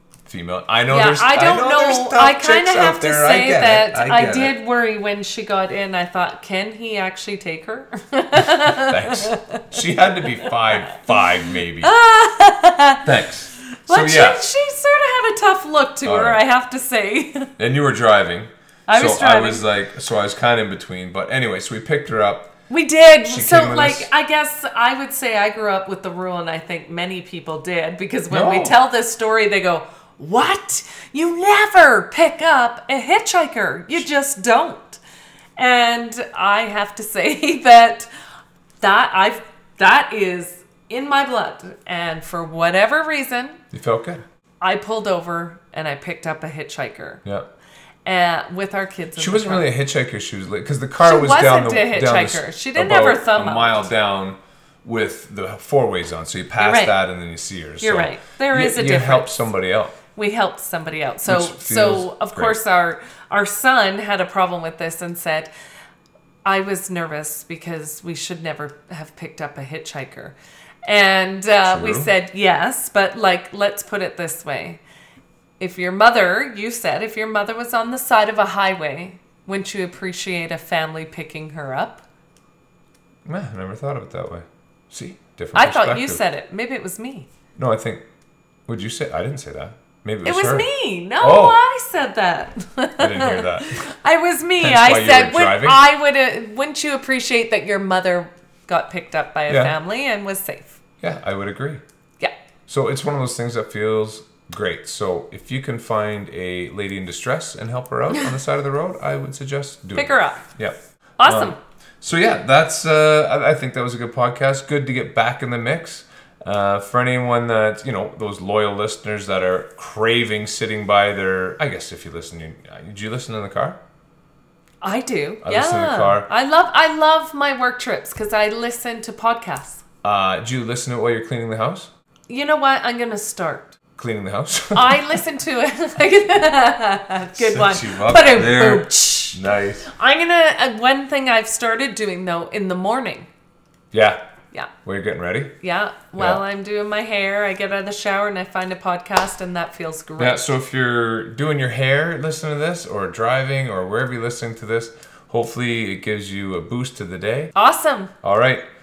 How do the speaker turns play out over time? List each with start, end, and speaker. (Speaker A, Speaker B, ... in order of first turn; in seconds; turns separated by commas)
Speaker A: 0.2-4.5, Speaker B: 0.9-9.6, Speaker A: 8.3-11.9, Speaker B: 10.4-10.7, Speaker B: 11.8-13.0, Speaker A: 13.0-14.4, Speaker B: 13.8-17.5, Speaker A: 16.0-16.4, Speaker A: 17.6-22.5, Speaker B: 18.9-19.6, Speaker B: 22.7-35.0, Speaker A: 23.2-24.1, Speaker A: 28.3-28.8, Speaker B: 35.6-38.1, Speaker B: 38.8-43.6, Speaker A: 43.7-44.2, Speaker B: 44.6-47.2, Speaker B: 48.0-49.7, Speaker A: 49.2-60.0, Speaker B: 51.0-53.9, Speaker B: 56.6-57.0, Speaker B: 57.8-59.4, Speaker B: 60.1-65.5, Speaker A: 61.2-62.6, Speaker B: 66.4-74.8, Speaker A: 71.7-72.1, Speaker B: 75.6-82.0, Speaker A: 83.2-86.2, Speaker B: 85.5-87.3, Speaker A: 87.6-88.0, Speaker A: 88.7-90.7, Speaker B: 90.2-100.8, Speaker A: 91.2-91.6, Speaker A: 93.0-93.8, Speaker A: 94.6-95.8, Speaker A: 99.5-99.7, Speaker A: 101.0-101.8, Speaker A: 102.7-123.8, Speaker B: 109.9-110.4, Speaker B: 111.2-111.6, Speaker B: 124.8-129.8, Speaker A: 125.4-126.3, Speaker A: 130.0-131.9, Speaker B: 132.3-133.8, Speaker A: 133.9-135.2, Speaker B: 134.7-143.3, Speaker A: 137.3-139.9, Speaker A: 143.9-144.2, Speaker A: 144.8-145.5, Speaker B: 145.6-150.5, Speaker A: 146.2-146.4, Speaker A: 150.2-157.5, Speaker B: 157.5-158.1, Speaker A: 158.2-158.6